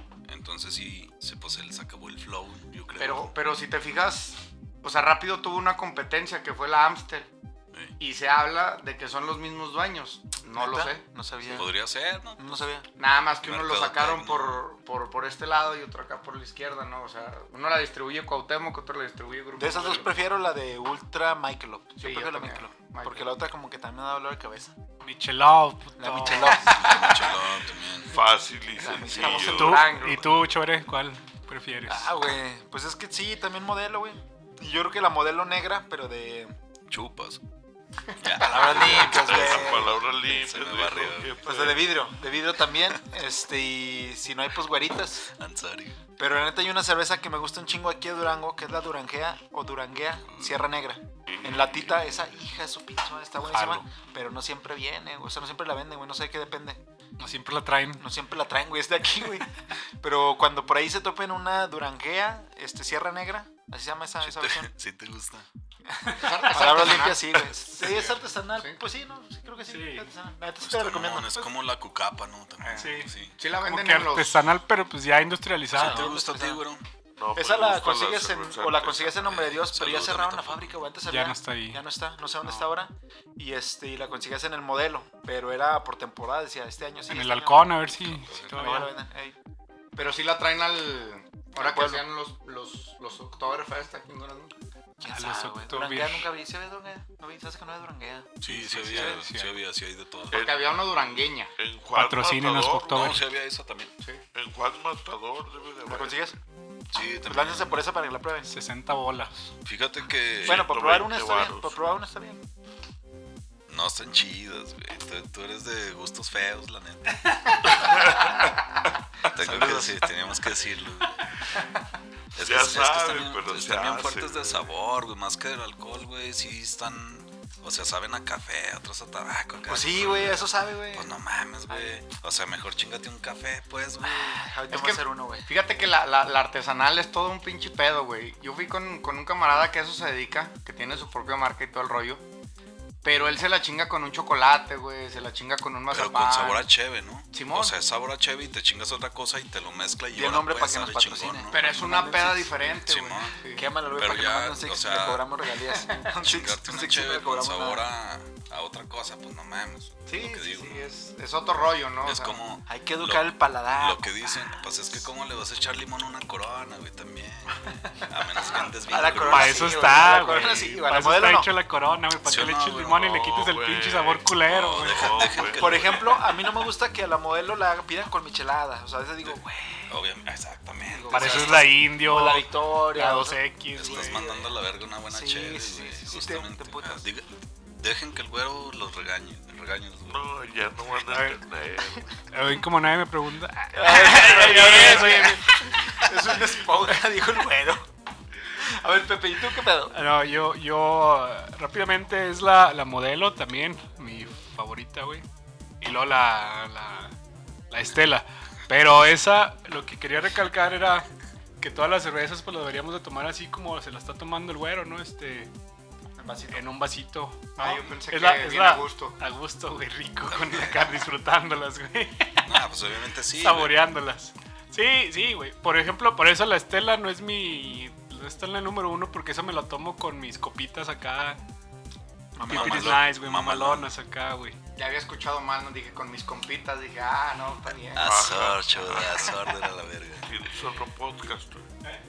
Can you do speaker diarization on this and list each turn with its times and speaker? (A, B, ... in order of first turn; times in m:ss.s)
0:00.3-0:03.3 A
0:03.0-0:07.3 B
0:08.0-0:11.0 B
0:10.5-0:11.8 C
0:11.4-0:12.7 A
0:12.4-0:12.9 C
0:13.0-0:20.2 B
0:13.4-0:14.6 A
0:19.6-0:24.7 C
0:22.0-0:23.4 B
0:25.0-0:26.9 D
0:26.0-0:27.2 C
0:26.3-0:27.2 B
0:26.7-0:28.1 A
0:28.1-0:30.4 E
0:28.8-0:29.8 C
0:29.2-0:30.2 B
0:29.4-0:32.1 D
0:31.9-0:36.6 C
0:36.9-0:37.4 A
0:38.2-0:41.5 A
0:38.3-0:40.0 C
0:38.8-0:42.0 E
0:41.4-0:45.3 C
0:45.3-0:46.0 A
0:46.2-0:56.8 C
0:50.3-0:50.6 A
0:51.3-0:51.8 E
0:53.5-0:53.9 D
0:57.2-0:58.1 D
0:58.0-1:04.7 C
1:04.2-1:05.5 A
1:06.0-1:06.8 D
1:06.1-1:08.8 B
1:06.5-1:11.3 C
1:09.7-1:10.1 D
1:10.6-1:13.4 A
1:12.6-1:14.5 B
1:12.8-1:16.2 D
1:15.7-1:16.8 A
1:15.8-1:16.6 C
1:17.2-1:19.3 E
1:17.4-1:27.9 C
1:19.2-1:20.8 A
1:21.0-1:21.8 D
1:27.1-1:28.9 D
1:28.1-1:28.8 A
1:28.5-1:29.4 C
1:30.0-1:34.5 B
1:31.6-1:32.0 C
1:35.0-1:39.3 C
1:35.1-1:36.3 D
1:38.4-1:40.5 A
1:38.5-1:39.6 D
1:40.3-1:43.2 E
1:40.3-1:41.5 B
1:41.9-1:43.2 D
1:42.9-1:43.9 A
1:44.3-1:46.3 E
1:45.9-1:46.4 C
1:46.9-1:47.8 A
1:47.2-1:48.5 C
1:48.5-1:49.4 D
1:49.6-1:50.7 A
1:50.4-1:52.0 E
1:50.4-1:52.5 C
1:53.7-1:58.3 A
1:57.8-1:58.3 E
1:59.2-2:00.1 E
1:59.3-2:01.2 A
2:02.3-2:14.4 A
2:02.4-2:04.7 E
2:09.7-2:11.1 C
2:11.7-2:12.0 C
2:14.0-2:15.5 C
2:14.7-2:22.2 B
2:23.0-2:26.7 B
2:25.9-2:31.6 A
2:27.3-2:27.8 B
2:30.1-2:32.5 C
2:31.5-2:33.7 B
2:32.9-2:33.4 A
2:33.5-2:37.8 C
2:33.9-2:35.2 A
2:35.8-2:36.1 B
2:36.2-2:40.9 A
2:40.1-2:42.4 B
2:42.0-2:50.2 A
2:42.7-2:44.6 C
2:48.5-2:51.5 C
2:49.0-2:55.4 D
2:52.2-2:53.6 A
2:53.4-2:54.2 E
2:54.4-2:56.3 A
2:54.8-2:55.9 E
2:55.6-2:59.9 C
2:59.2-3:01.8 A
3:00.9-3:04.5 C
3:01.1-3:04.5 D
3:03.7-3:10.2 A
3:05.1-3:07.1 C
3:10.0-3:12.2 E
3:11.1-3:11.4 D
3:12.2-3:16.0 D
3:13.7-3:17.9 C
3:18.5-3:20.0 C
3:19.9-3:25.2 D
3:25.8-3:27.1 D
3:27.7-3:31.1 D
3:31.6-3:35.5 D
3:36.2-3:36.7 C
3:36.5-3:42.6 D
3:37.6-3:39.2 B
3:40.3-3:41.0 A
3:42.4-3:43.8 A
3:43.3-3:51.4 D
3:52.4-3:53.0 C
3:52.4-3:53.9 A
3:52.4-3:54.6 D
3:54.8-3:58.3 B
3:57.9-4:00.3 A
3:58.0-3:59.4 E
4:00.2-4:01.7 E